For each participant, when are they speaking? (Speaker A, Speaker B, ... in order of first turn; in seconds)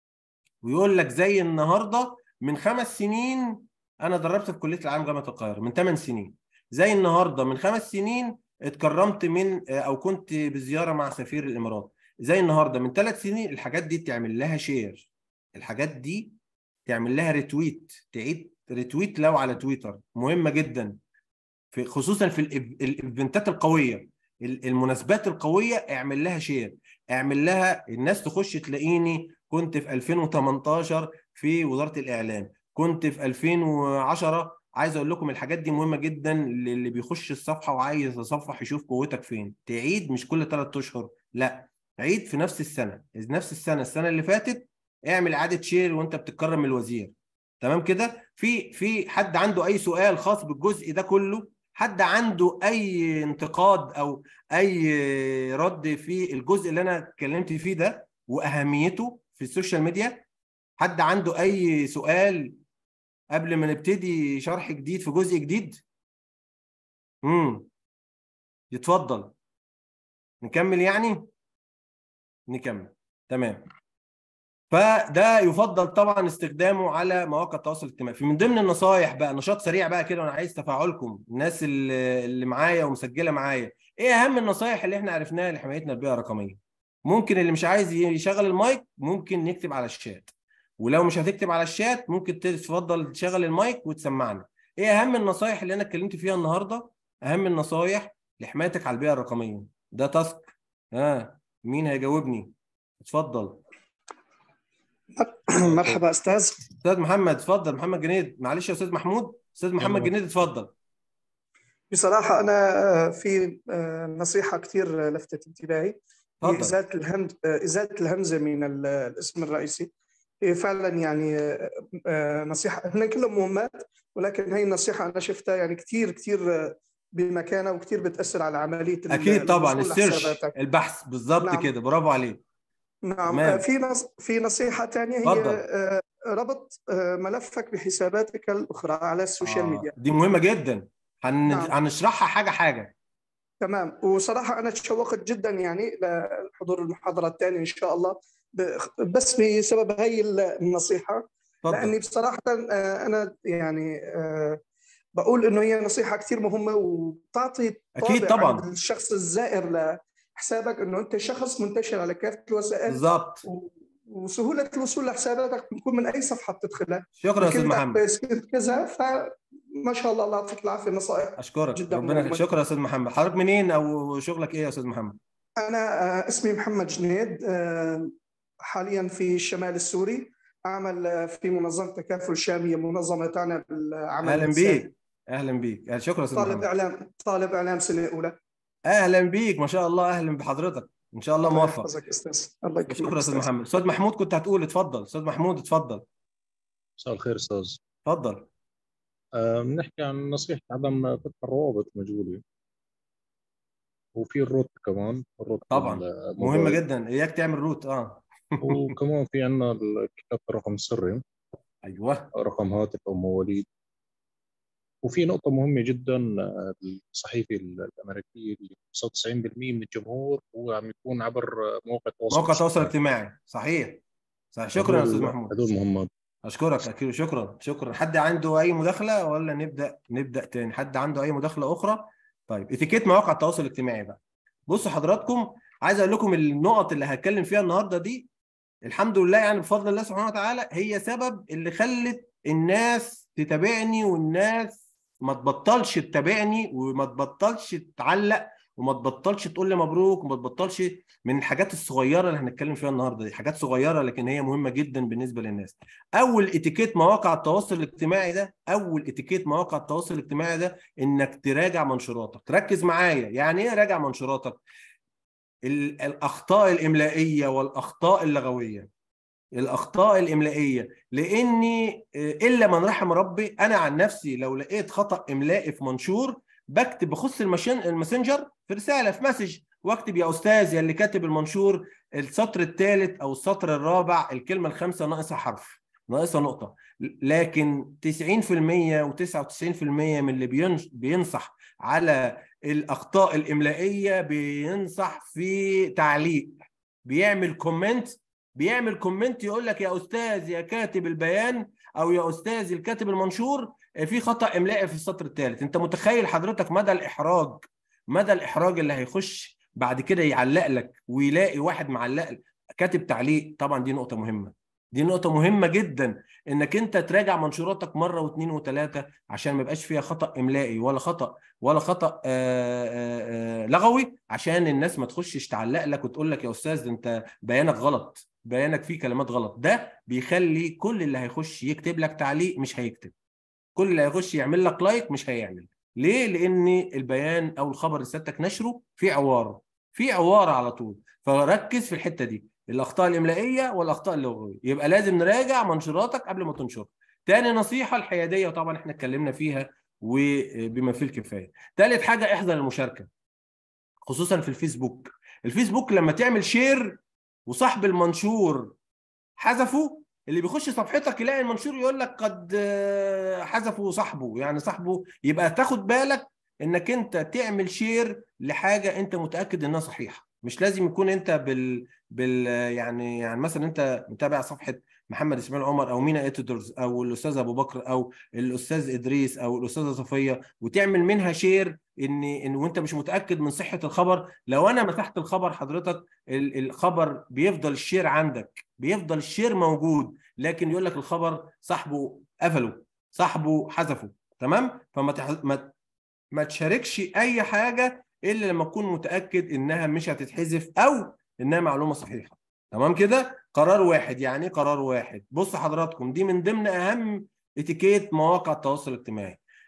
Speaker A: 0.6-16.3, 16.9-20.9, 21.7-60.2, 60.8-62.5, 63.3-65.8, 67.2-67.7, 68.7-69.3, 70.4-71.3, 72.5-73.7, 74.7-102.5, 103.0-103.6, 106.8-110.7, 116.4-116.8, 129.1-132.4, 133.3-133.6, 135.2-135.6, 139.4-142.9, 151.6-151.9, 157.9-158.7, 162.9-163.4, 167.2-168.0, 171.4-175.2, 184.2-186.7, 188.9-191.9, 192.9-196.0, 198.1-198.5, 205.7-208.9, 211.8-212.3, 222.3-224.0, 224.5-225.5, 226.4-238.3, 238.8-264.6, 265.6-268.9, 269.5-333.1, 333.8-353.1, 354.0-358.7, 359.4-395.7, 396.3-409.4
Speaker B: 105.2-106.6, 111.9-119.9, 120.4-130.5, 131.4-131.7, 133.1-139.9, 141.5-141.7, 143.6-154.6, 155.2-172.5, 175.6-178.1, 178.7-184.9, 186.3-188.3, 191.4-193.5
Speaker C: 109.8-110.1, 197.0-197.8, 199.4-202.4, 204.2-206.8, 208.6-211.2, 212.3-213.6, 215.0-222.9, 224.8-226.1